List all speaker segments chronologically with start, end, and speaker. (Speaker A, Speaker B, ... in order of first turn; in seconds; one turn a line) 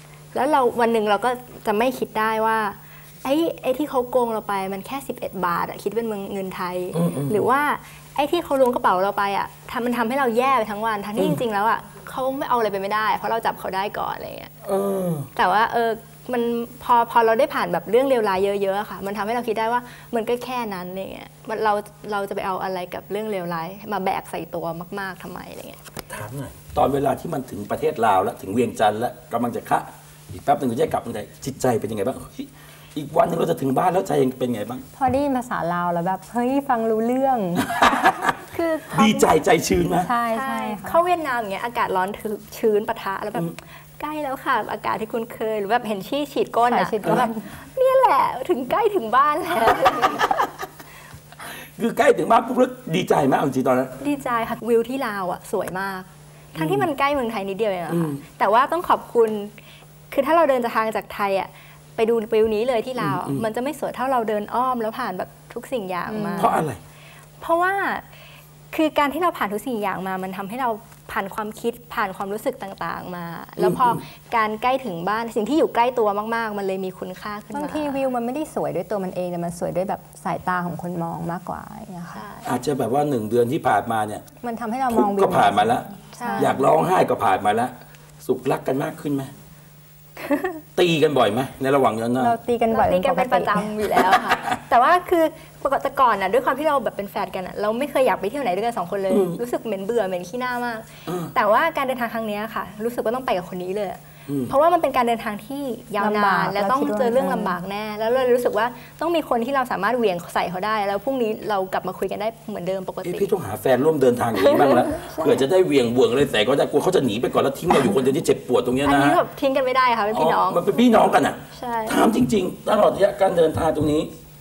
Speaker A: 0.3-14.5
Speaker B: 6.9-7.5
Speaker B: 14.6-15.3
Speaker A: 15.3-25.8
Speaker B: 26.1-34.9
Speaker C: 35.0-37.9
Speaker B: 37.8-38.3
Speaker A: 38.5-39.4
Speaker B: 38.9-40.1
Speaker C: 40.0-41.0
Speaker A: 40.3-50.3
Speaker C: 46.7-47.5
Speaker B: 51.5-53.9
Speaker A: 54.0-59.5
Speaker B: 56.6-56.9
Speaker B: 57.9-58.2
Speaker A: 60.1-66.6
Speaker B: 63.0-63.5
Speaker C: 66.1-66.7
Speaker B: 66.4-66.8
Speaker A: 67.4-68.0
Speaker A: 68.7-78.0
Speaker B: 73.6-74.0
Speaker C: 77.5-82.2
Speaker A: 82.1-82.5
Speaker B: 82.4-84.2
Speaker C: 84.4-86.7
Speaker B: 84.9-89.3
Speaker A: 86.2-86.6
Speaker B: 90.8-92.4
Speaker C: 92.2-93.8
Speaker A: 92.7-113.3
Speaker B: 94.0-94.6
Speaker B: 99.1-99.4
Speaker B: 101.1-101.3
Speaker B: 104.3-104.5
Speaker C: 106.0-107.6
Speaker B: 113.0-119.2
Speaker A: 114.4-115.4
Speaker A: 118.8-120.9
Speaker B: 120.1-124.1
Speaker A: 121.5-122.0